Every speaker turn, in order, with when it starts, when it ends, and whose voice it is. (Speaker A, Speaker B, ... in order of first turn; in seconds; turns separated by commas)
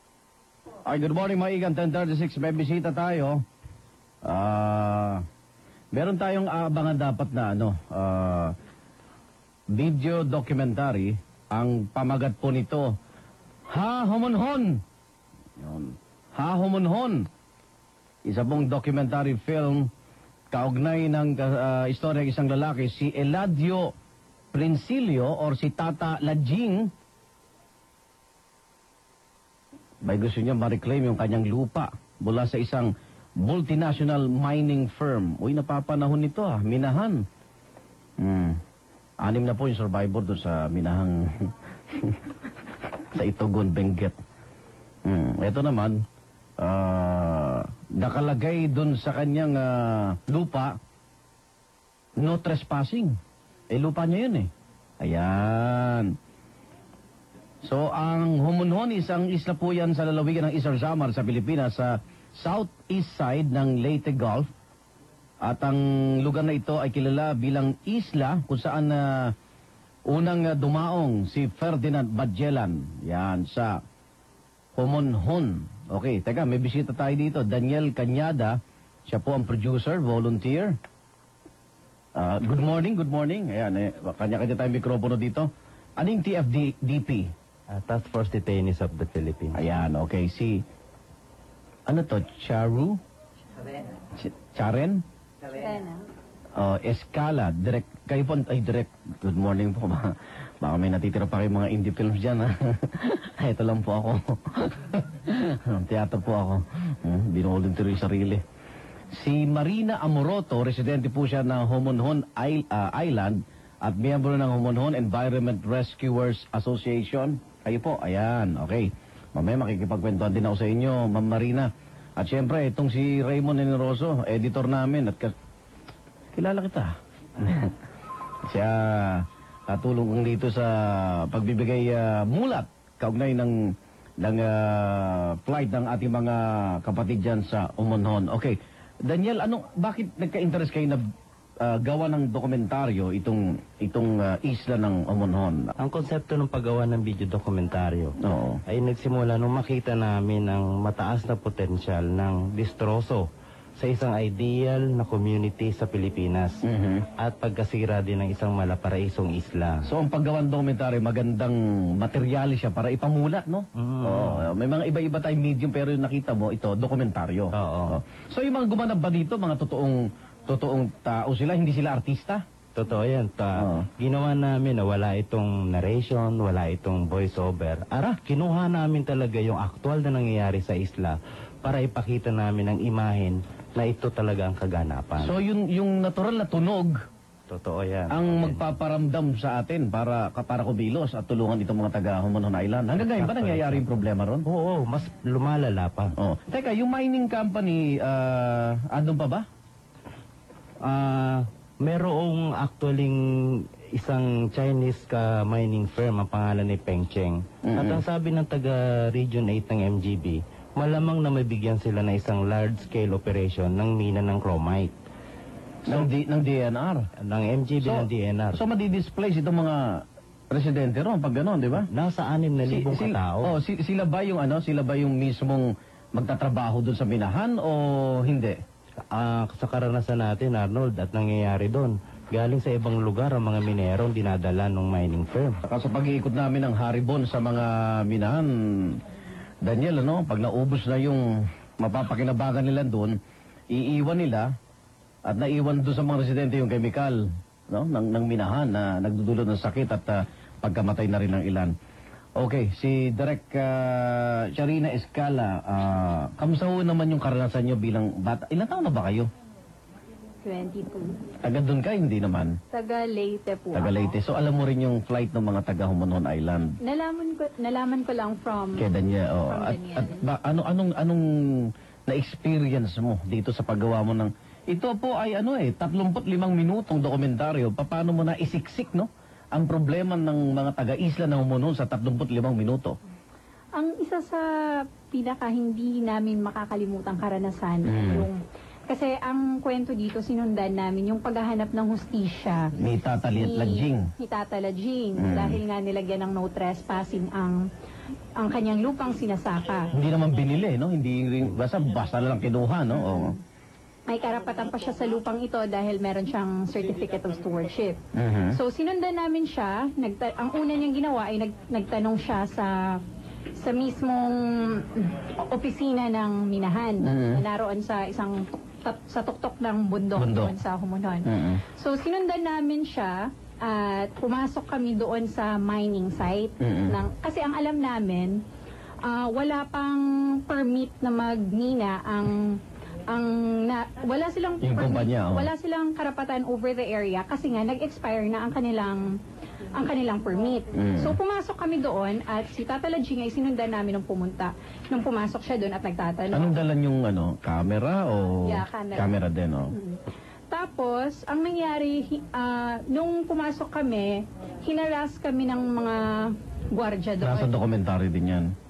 Speaker A: 0.9-3.4, Speaker A: 4.2-5.2, Speaker A: 5.9-8.5, Speaker A: 9.7-13.0, Speaker A: 13.7-14.8, Speaker A: 15.6-17.3, Speaker A: 18.2-19.9, Speaker A: 20.5-23.9, Speaker A: 24.5-26.9, Speaker A: 30.0-37.2, Speaker A: 38.2-38.6, Speaker A: 39.2-42.3, Speaker A: 43.1-44.1, Speaker A: 45.0-46.0, Speaker A: 46.6-50.7, Speaker A: 52.2-53.2, Speaker A: 53.7-56.1, Speaker A: 57.6-64.5, Speaker A: 65.4-69.3, Speaker A: 70.1-73.8, Speaker A: 74.8-80.8, Speaker A: 82.2-87.3, Speaker B: 87.7-89.6, Speaker A: 89.5-90.6, Speaker A: 91.9-93.0, Speaker A: 94.1-95.0, Speaker C: 95.5-96.0, Speaker A: 96.6-108.4, Speaker A: 109.2-125.3, Speaker A: 126.3-127.7, Speaker A: 128.5-141.0, Speaker A: 141.6-145.7, Speaker B: 145.8-153.2, Speaker A: 148.2-148.6, Speaker B: 153.8-156.6, Speaker A: 156.6-157.1, Speaker B: 157.2-159.8, Speaker A: 159.8-172.4, Speaker B: 163.8-164.4, Speaker B: 167.5-168.0, Speaker B: 172.7-185.4, Speaker A: 173.6-173.9, Speaker A: 185.2-186.9, Speaker B: 187.5-188.6, Speaker A: 188.1-194.4, Speaker B: 193.0-193.8, Speaker B: 194.4-196.1, Speaker A: 196.2-199.4, Speaker B: 200.8-214.9, Speaker A: 207.6-208.0, Speaker A: 215.9-217.1, Speaker B: 217.2-218.6, Speaker A: 217.8-221.9, Speaker B: 221.8-223.5, Speaker A: 222.7-228.6, Speaker B: 229.1-235.6, Speaker A: 235.6-239.0, Speaker A: 239.6-243.2, Speaker A: 243.7-244.5, Speaker A: 245.2-251.7, Speaker A: 252.4-259.3, Speaker C: 260.4-261.1, Speaker A: 261.4-262.6, Speaker C: 262.7-264.1, Speaker A: 263.7-266.8, Speaker C: 266.8-268.9, Speaker A: 268.8-282.9, Speaker C: 269.5-270.2, Speaker C: 283.8-284.4, Speaker C: 285.1-292.7, Speaker A: 287.9-288.3, Speaker A: 292.8-294.1, Speaker C: 293.3-297.7, Speaker A: 295.2-295.6, Speaker C: 298.4-299.9, Speaker A: 299.9-303.3, Speaker C: 302.9-303.4, Speaker C: 304.1-308.0, Speaker A: 308.1-308.6, Speaker C: 308.5-313.0, Speaker C: 313.6-328.4, Speaker A: 317.0-317.4, Speaker A: 320.2-320.5, Speaker A: 321.2-321.6, Speaker A: 326.6-327.0, Speaker C: 329.0-339.0, Speaker A: 334.6-335.5, Speaker C: 339.7-346.6, Speaker A: 340.7-341.1, Speaker A: 346.3-349.7, Speaker C: 348.4-349.1, Speaker C: 349.7-350.0, Speaker C: 350.5-357.5, Speaker A: 357.2-358.5